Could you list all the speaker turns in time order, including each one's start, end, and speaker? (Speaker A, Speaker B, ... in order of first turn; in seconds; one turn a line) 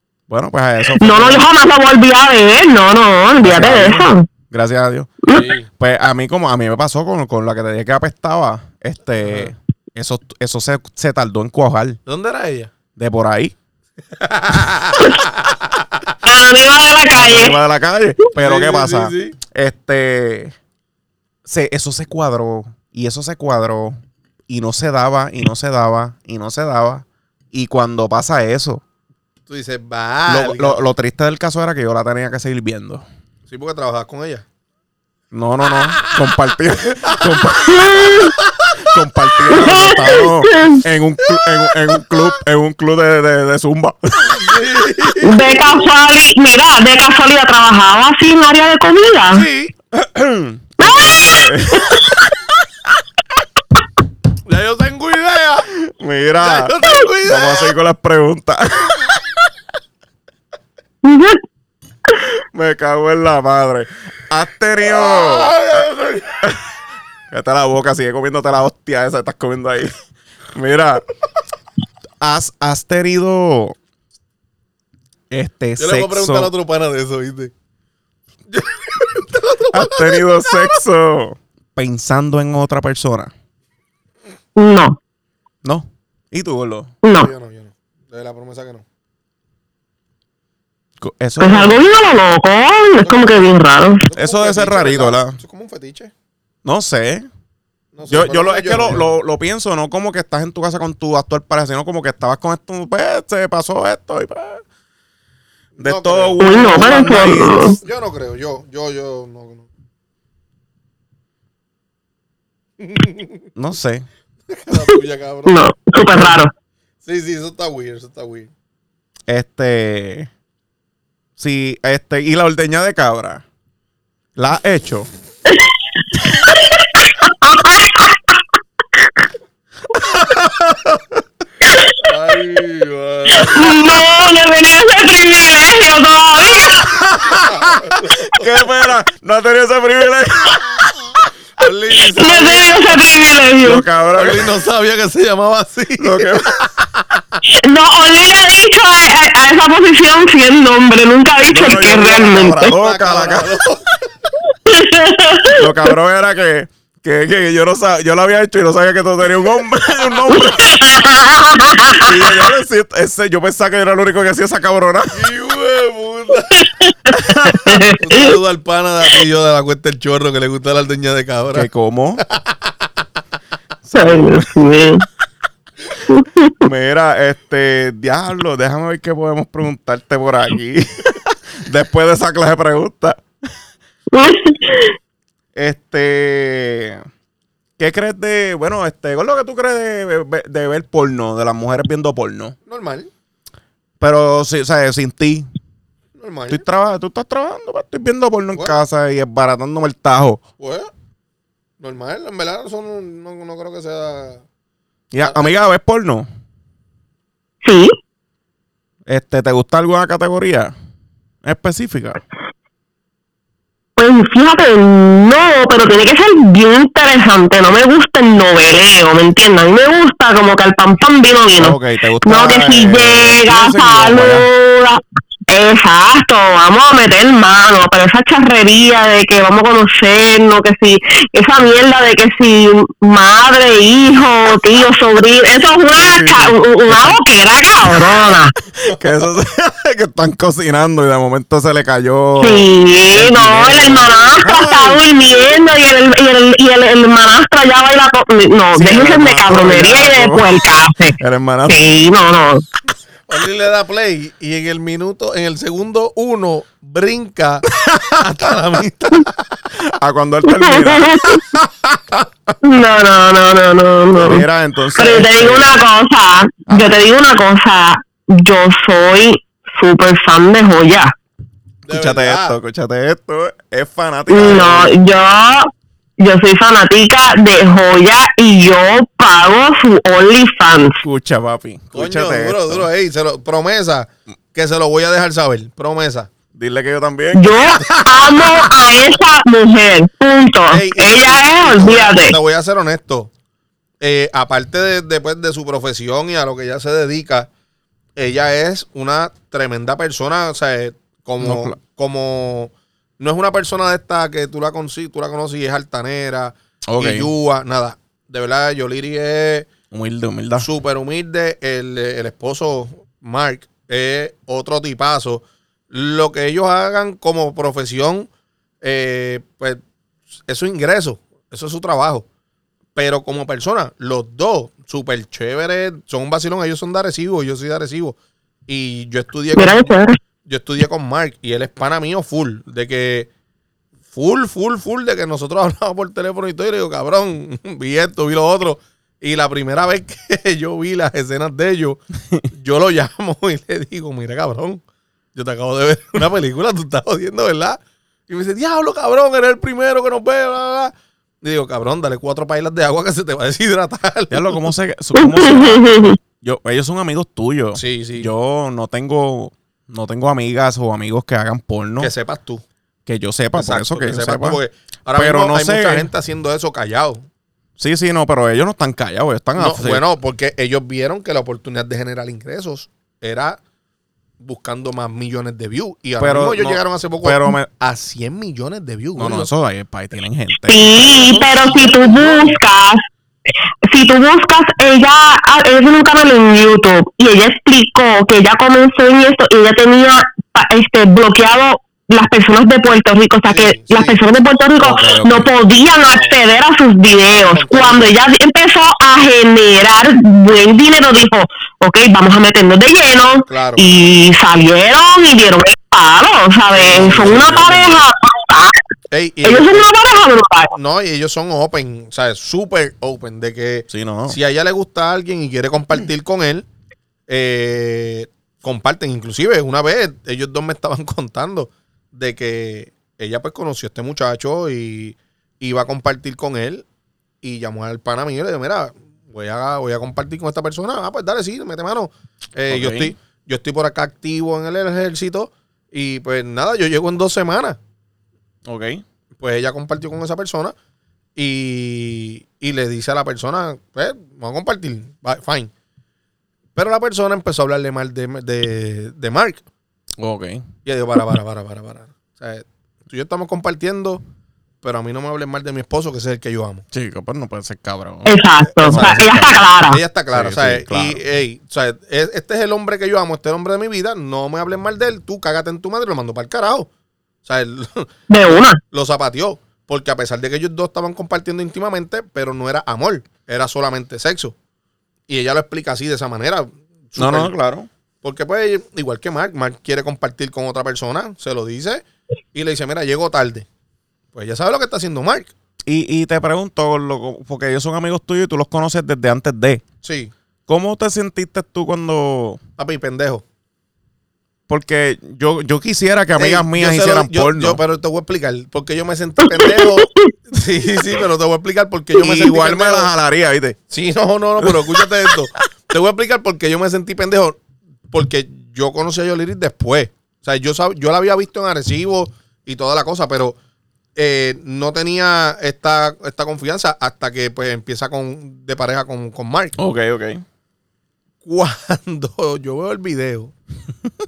Speaker A: 0.3-1.5
Speaker B: 1.0-4.2
Speaker A: 3.4-5.2
Speaker B: 5.2-5.5
Speaker C: 5.3-5.7
Speaker A: 5.7-12.0
Speaker C: 9.2-9.5
Speaker C: 12.1-12.7
Speaker A: 12.9-13.5
Speaker C: 14.2-16.1
Speaker B: 16.2-17.6
Speaker A: 17.1-20.5
Speaker C: 18.3-19.4
Speaker A: 21.4-28.8
Speaker C: 29.5-30.8
Speaker A: 30.3-33.0
Speaker C: 33.5-34.4
Speaker A: 35.3-44.5
Speaker C: 35.9-36.3
Speaker C: 37.0-38.7
Speaker B: 37.6-38.3
Speaker B: 39.5-40.8
Speaker C: 44.2-45.8
Speaker B: 45.2-49.5
Speaker A: 49.4-52.2
Speaker B: 50.8-51.9
Speaker C: 50.9-51.3
Speaker C: 54.5-55.7
Speaker A: 55.7-59.2
Speaker C: 56.4-57.7
Speaker B: 61.0-61.4
Speaker A: 62.5-65.6
Speaker C: 64.8-66.3
Speaker A: 66.4-66.7
Speaker A: 67.3-70.0
Speaker A: 70.5-71.0
Speaker A: 72.2-73.8
Speaker A: 75.3-76.5
Speaker C: 75.8-77.5
Speaker C: 78.5-80.8
Speaker A: 79.7-83.3
Speaker B: 84.5-85.0
Speaker A: 85.6-86.9
Speaker B: 87.0-87.3
Speaker C: 87.1-88.8
Speaker A: 91.0-91.8
Speaker B: 91.4-94.0
Speaker C: 93.0-96.1
Speaker A: 94.2-95.4
Speaker A: 96.6-97.3
Speaker C: 97.9-99.1
Speaker A: 98.1-104.6
Speaker C: 105.8-109.7
Speaker A: 105.8-107.8
Speaker B: 106.4-107.8
Speaker C: 112.8-113.4
Speaker A: 113.5-114.1
Speaker C: 114.5-116.3
Speaker B: 115.5-116.5
Speaker C: 117.0-118.5
Speaker A: 119.3-120.3
Speaker A: 121.4-123.4
Speaker A: 124.4-125.1
Speaker B: 126.4-128.2
Speaker A: 130.0-130.9
Speaker C: 132.0-134.0
Speaker B: 133.3-136.9
Speaker A: 136.8-141.2
Speaker C: 137.2-138.5
Speaker C: 141.6-143.0
Speaker B: 142.2-143.8
Speaker A: 143.6-144.5
Speaker C: 144.1-147.2
Speaker A: 146.0-146.6
Speaker B: 147.5-152.8
Speaker A: 151.5-153.5
Speaker C: 152.7-154.0
Speaker B: 154.7-155.9
Speaker A: 155.5-160.8
Speaker B: 160.3-162.1
Speaker A: 162.0-165.2
Speaker C: 165.1-166.7
Speaker B: 166.6-168.3
Speaker A: 167.1-167.8
Speaker C: 167.9-171.7
Speaker A: 171.5-172.2
Speaker C: 172.3-172.5
Speaker A: 173.8-174.5
Speaker B: 173.9-175.1
Speaker B: 176.1-176.7
Speaker A: 176.6-183.2
Speaker B: 184.1-184.9
Speaker A: 185.6-187.0
Speaker A: 187.8-192.6
Speaker C: 192.7-193.1
Speaker A: 194.0-195.5
Speaker C: 196.2-196.6
Speaker A: 196.5-200.4
Speaker C: 198.5-198.8
Speaker C: 200.6-200.9
Speaker C: 201.8-204.4
Speaker A: 205.1-206.3
Speaker C: 205.2-205.5
Speaker B: 207.6-207.9
Speaker A: 209.1-210.7
Speaker A: 211.4-212.2
Speaker B: 214.0-238.5
Speaker A: 221.6-224.5
Speaker A: 235.9-237.2
Speaker C: 238.8-239.2
Speaker A: 238.9-245.0
Speaker B: 242.4-252.6
Speaker C: 243.5-244.4
Speaker C: 245.2-245.6
Speaker A: 248.7-250.4
Speaker A: 251.2-251.9
Speaker C: 253.3-259.5
Speaker A: 257.8-258.1
Speaker A: 259.8-261.4
Speaker B: 260.4-261.4
Speaker B: 262.6-271.1
Speaker A: 264.2-265.7
Speaker A: 266.7-267.0
Speaker C: 271.8-272.6
Speaker A: 271.9-274.9
Speaker B: 274.3-281.0
Speaker A: 281.0-282.9
Speaker C: 281.9-286.3
Speaker A: 286.5-287.5
Speaker B: 287.3-292.4
Speaker C: 287.8-288.7
Speaker C: 290.7-293.3
Speaker C: 294.0-297.5
Speaker C: 298.1-309.7
Speaker A: 301.4-301.8
Speaker A: 306.9-307.3
Speaker A: 309.9-310.7
Speaker C: 310.6-318.3
Speaker C: 318.8-319.8
Speaker C: 320.5-322.2
Speaker C: 322.9-328.1
Speaker C: 328.7-329.9
Speaker B: 329.5-330.2
Speaker C: 330.4-333.3
Speaker C: 334.1-342.0
Speaker C: 342.5-344.8
Speaker C: 345.3-354.4
Speaker A: 354.3-362.1
Speaker B: 355.1-356.2
Speaker C: 357.7-358.3
Speaker C: 362.0-362.6
Speaker A: 363.1-364.6
Speaker C: 363.5-367.2
Speaker A: 365.1-366.1
Speaker A: 367.8-370.0
Speaker C: 369.6-373.6
Speaker C: 374.4-379.5
Speaker A: 376.2-377.7
Speaker A: 379.1-381.0
Speaker B: 380.7-383.0
Speaker C: 380.9-382.6
Speaker B: 383.9-408.8
Speaker C: 393.5-394.2
Speaker A: 394.8-395.5
Speaker C: 396.0-396.3
Speaker C: 397.3-398.1
Speaker C: 403.5-403.9
Speaker C: 406.7-408.0
Speaker A: 406.9-407.6
Speaker C: 409.1-409.9
Speaker B: 409.4-410.7
Speaker C: 410.7-416.6
Speaker A: 413.9-414.4
Speaker C: 417.3-426.8
Speaker C: 427.4-437.8
Speaker A: 432.7-433.1
Speaker A: 438.6-439.0
Speaker C: 439.4-440.7
Speaker C: 441.4-445.7
Speaker C: 446.7-449.6
Speaker A: 450.2-450.6
Speaker C: 450.8-454.2
Speaker C: 454.8-456.8
Speaker A: 456.9-459.7
Speaker B: 458.2-460.0
Speaker C: 458.7-459.2
Speaker C: 459.8-466.9
Speaker A: 460.3-461.2
Speaker C: 467.4-474.5
Speaker B: 468.3-468.8
Speaker C: 475.3-477.5
Speaker A: 477.2-477.9
Speaker C: 478.2-483.6
Speaker C: 484.3-485.5
Speaker A: 485.9-489.8
Speaker C: 490.0-490.3
Speaker A: 490.7-492.6
Speaker C: 492.8-493.4
Speaker A: 494.7-497.8
Speaker C: 496.4-503.1
Speaker B: 499.6-500.3
Speaker A: 502.2-503.8
Speaker C: 503.9-507.6
Speaker A: 504.6-505.1
Speaker C: 508.1-513.6
Speaker C: 514.1-519.8
Speaker A: 519.8-520.4
Speaker C: 521.4-523.5